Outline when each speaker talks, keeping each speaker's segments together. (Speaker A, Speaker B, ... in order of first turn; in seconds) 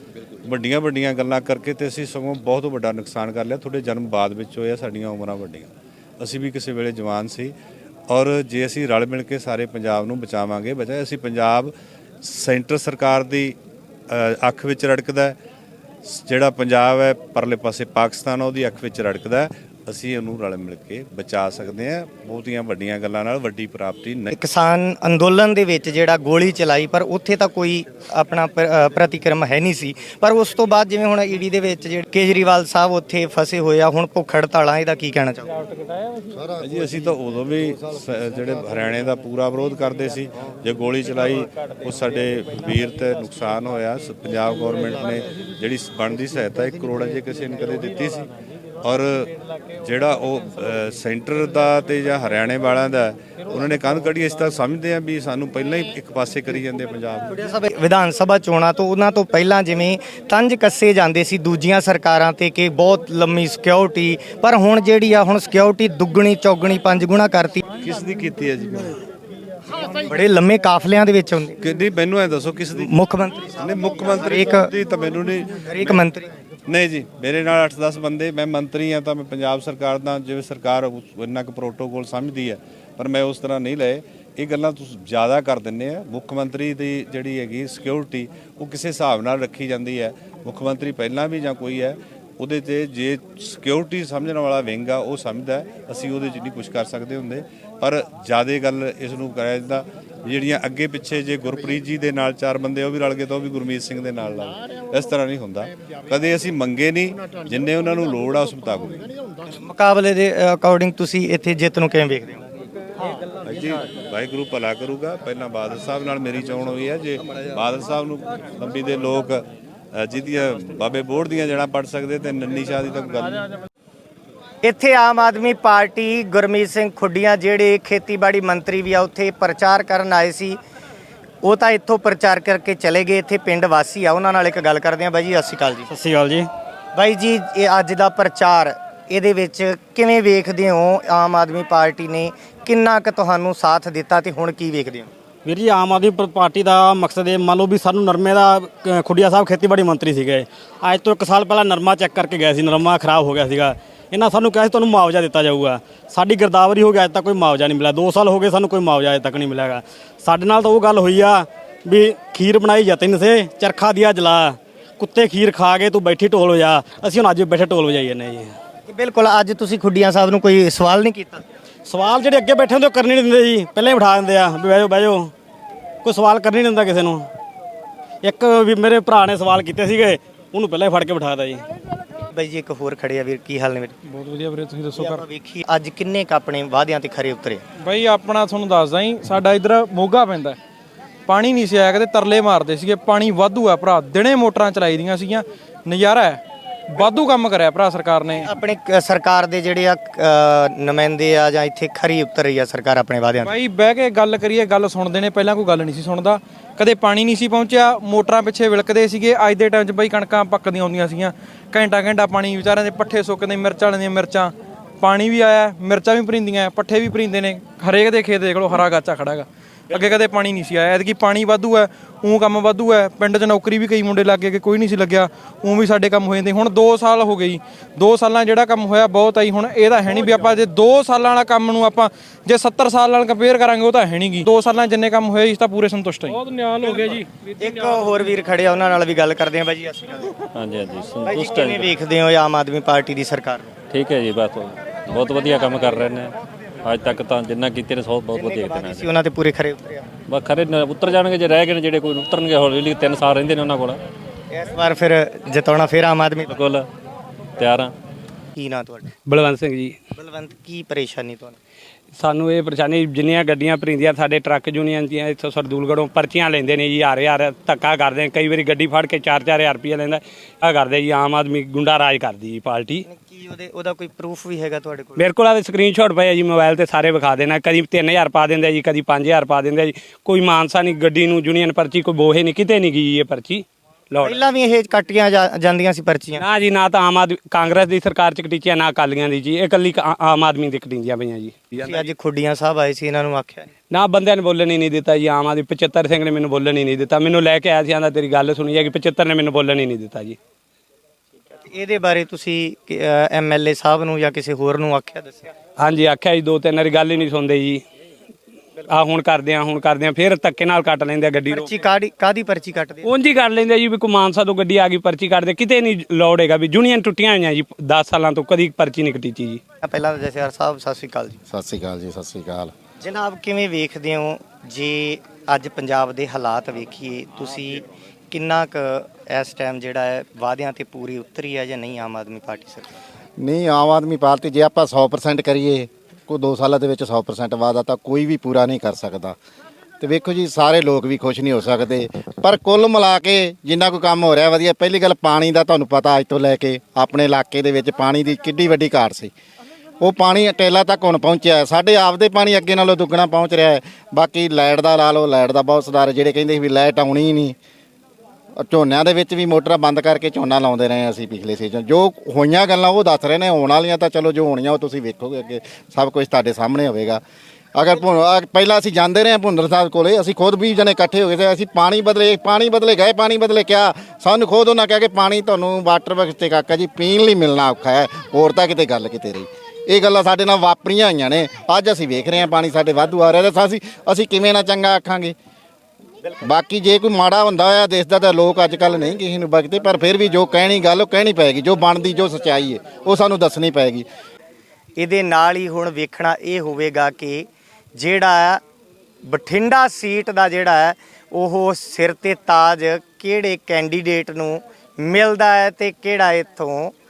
Speaker A: 0.5-7.5, 8.1-11.7, 12.2-13.6, 14.1-15.4, 16.0-24.3, 36.6-48.3, 48.8-57.3, 67.8-69.0, 71.6-73.0, 73.6-76.0, 76.7-109.1, 113.4-123.5
Speaker B: 24.3-35.5, 57.3-67.6, 70.0-71.6, 72.8-74.7, 75.7-76.3, 109.5-112.4, 124.6-130.6, 131.4-135.9, 136.9-145.1, 168.9-171.4, 182.3-183.9, 185.0-187.6, 198.4-203.5, 237.6-240.3, 241.3-243.7, 248.3-250.1, 254.5-256.6, 258.6-259.1, 260.1-261.6, 273.1-275.3, 284.2-286.4, 291.8-293.7, 301.6-305.5, 311.5-313.1, 319.8-321.4, 323.0-332.9, 395.0-398.6, 399.2-406.9
Speaker C: 135.9-136.5, 145.4-168.5, 171.9-175.3, 176.1-177.2, 178.2-181.6
Speaker D: 184.1-185.2, 187.8-190.6, 191.3-196.4, 196.9-198.5, 203.4-237.3
Speaker E: 240.6-241.9, 243.9-249.1, 250.3-254.0, 256.5-256.9, 257.6-257.9
Speaker F: 259.3-260.0, 262.2-273.1, 275.2-284.4, 286.4-291.9, 293.9-300.4, 305.8-307.8, 308.8-311.7, 313.0-319.6
Speaker G: 321.5-322.7, 333.4-339.4, 340.0-349.3, 350.0-357.6, 358.6-367.2, 367.8-385.4, 386.4-394.1